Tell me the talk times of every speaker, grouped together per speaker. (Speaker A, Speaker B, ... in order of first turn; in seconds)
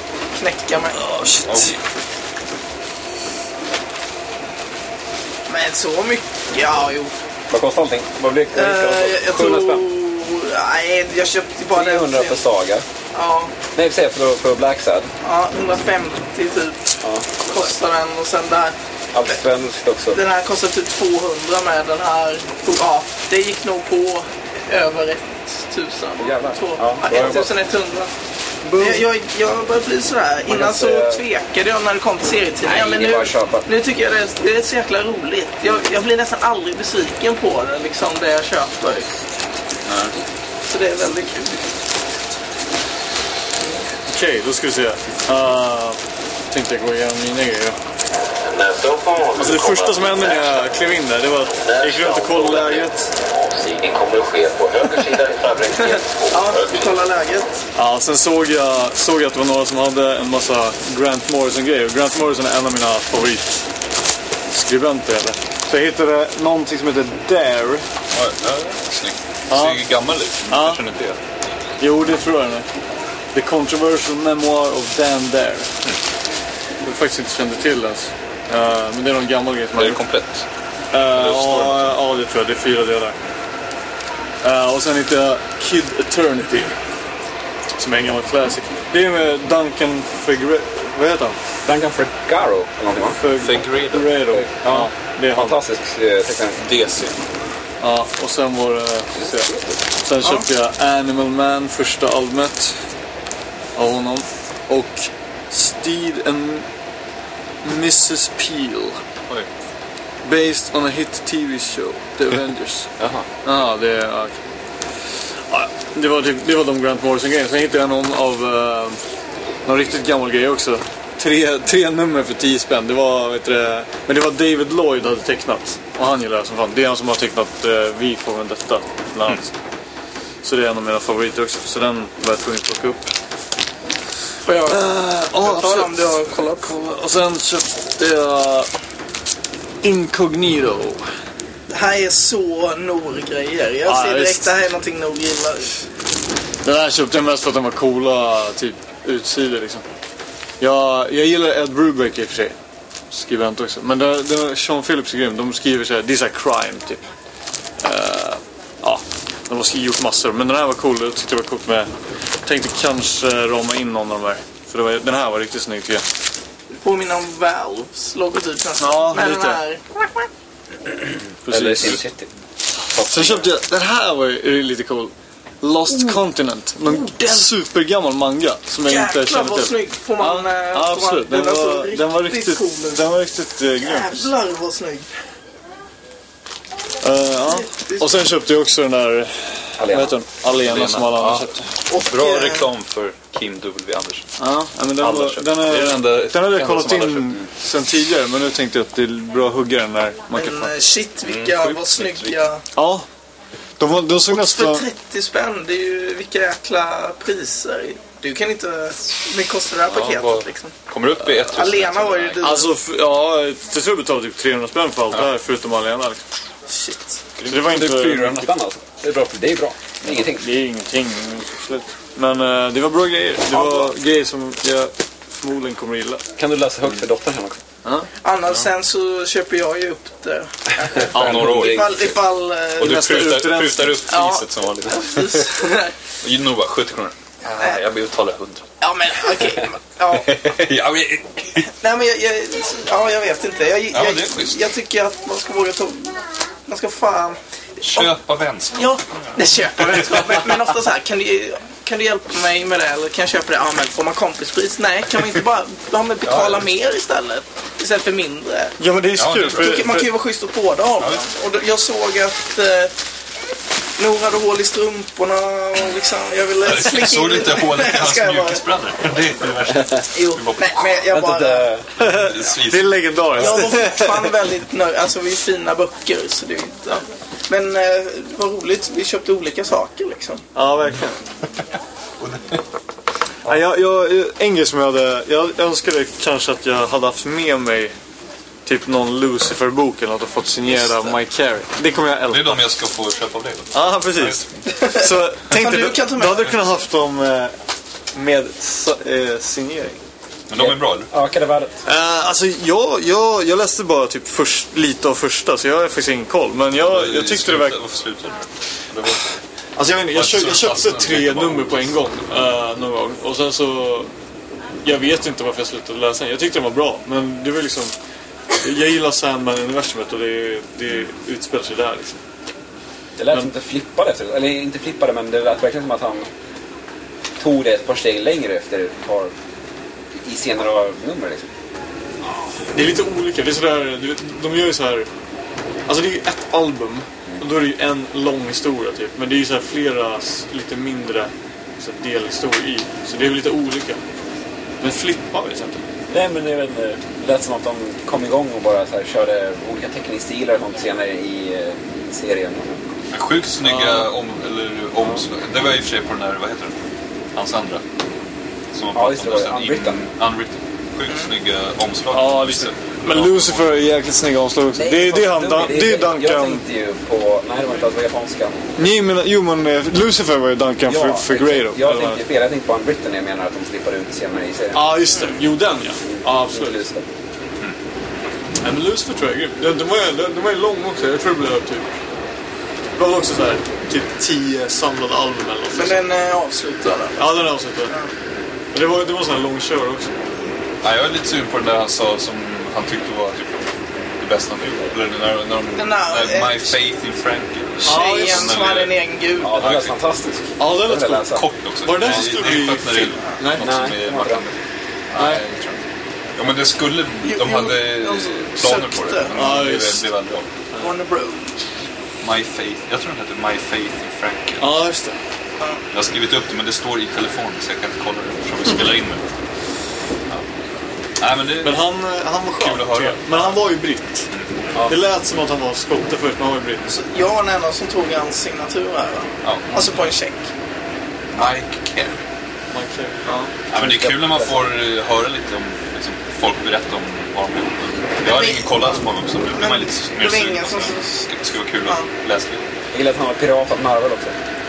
Speaker A: 0.4-1.0, 5.5-7.1, 8.5-12.4, 13.1-13.5, 15.2-16.8, 17.4-18.8, 20.1-28.1, 28.8-39.1, 40.7-41.6, 55.8-57.6, 100.2-100.5, 134.5-136.7, 141.7-145.7, 166.8-170.3, 175.9-176.2, 176.8-177.5, 178.8-183.1, 183.8-185.1, 187.4-188.1, 191.9-192.7, 200.3-202.6, 204.3-210.7, 211.3-212.7, 216.7-217.2, 228.2-233.0, 234.1-235.9, 238.8-240.3, 241.7-247.4, 248.8-258.8, 259.5-262.9, 264.0-268.6, 270.1-271.7, 273.4-280.4, 294.7-296.5, 385.7-387.3, 395.8-396.8, 397.9-399.5, 407.2-409.3, 410.8-411.5, 426.9-430.5, 438.2-441.3
Speaker B: 1.0-1.8, 28.6-29.0, 44.1-46.0, 46.5-47.8, 49.4-53.1, 57.8-63.6, 64.5-67.8, 69.5-69.8, 70.5-70.8, 71.8-72.7, 73.3-75.7, 76.8-80.0, 80.9-83.2, 84.4-86.8, 87.8-91.4, 93.1-95.6, 97.8-102.8, 103.8-106.7, 107.6-109.0, 110.2-112.9, 113.4-114.4, 115.5-119.0, 119.7-129.5, 130.4-133.1, 134.7-136.0, 136.6-138.7, 139.8-141.0, 143.8-144.4, 146.6-149.8, 150.6-152.6, 153.1-157.0, 157.8-161.9, 162.4-166.1, 168.8-169.6, 171.4-172.0, 173.1-184.3, 187.0-191.7, 194.4-200.7, 202.8-203.1, 203.8-204.9, 212.4-216.2, 217.4-218.5, 220.1-226.2, 231.2-231.7, 232.8-234.1, 258.8-260.1, 272.0-274.3, 280.6-281.2, 283.4-287.9, 288.6-292.6, 293.7-297.5, 298.1-300.0, 301.9-307.8, 309.8-314.1, 314.8-317.9, 318.6-322.2, 332.7-335.1, 335.9-344.0, 344.8-345.8, 353.6-354.1, 362.1-366.6, 368.8-372.2, 374.7-376.9, 378.6-381.9, 383.0-386.0, 387.2-387.9, 388.7-390.1, 397.9-398.6, 400.6-401.3, 401.9-403.7, 405.2-405.8, 409.3-410.1, 414.6-415.2, 421.6-424.3, 424.8-426.9, 432.7-433.5
Speaker C: 1.4-1.8, 39.9-40.1, 68.1-71.2, 79.8-80.5, 81.1-81.9, 93.4-94.1, 96.6-97.2, 113.0-113.3, 190.5-194.3, 195.0-197.4, 201.2-202.4, 209.9-212.5, 231.1-231.9, 232.8-235.3, 236.2-238.7, 240.2-241.7, 243.9-244.6, 247.8-248.9, 256.3-256.6, 259.2-259.9, 266.6-271.0, 272.0-273.8, 282.2-282.6, 292.3-294.8, 300.5-301.1, 306.8-309.3, 310.1-311.9, 353.1-356.7, 357.4-357.8, 358.7-363.8, 390.8-393.6, 394.2-399.0, 399.6-399.9, 401.3-404.6, 405.1-405.5, 406.4-410.5, 412.2-414.8, 415.9-419.2, 421.2-421.8, 422.6-423.6, 429.4-430.0, 431.4-432.2, 433.7-442.6
Speaker D: 7.5-9.9, 11.7-12.8, 13.8-15.1, 17.0-17.3, 19.1-20.2, 26.2-27.5, 30.5-31.2, 32.6-33.7, 91.7-93.2, 94.3-96.6, 99.1-99.8, 171.4-172.3, 172.9-173.5, 189.8-190.2, 217.5-220.5, 223.5-223.9, 226.4-227.6, 230.9-232.1, 271.1-271.9, 290.7-291.2, 300.6-301.9, 323.2-326.3, 327.4-329.3, 330.1-331.4, 346.1-352.9, 358.9-360.0, 364.7-368.6, 370.9-375.0, 376.0-377.1, 399.4-401.4, 403.6-404.5, 433.7-434.8, 442.9-444.4
Speaker E: 48.4-50.7, 51.5-57.0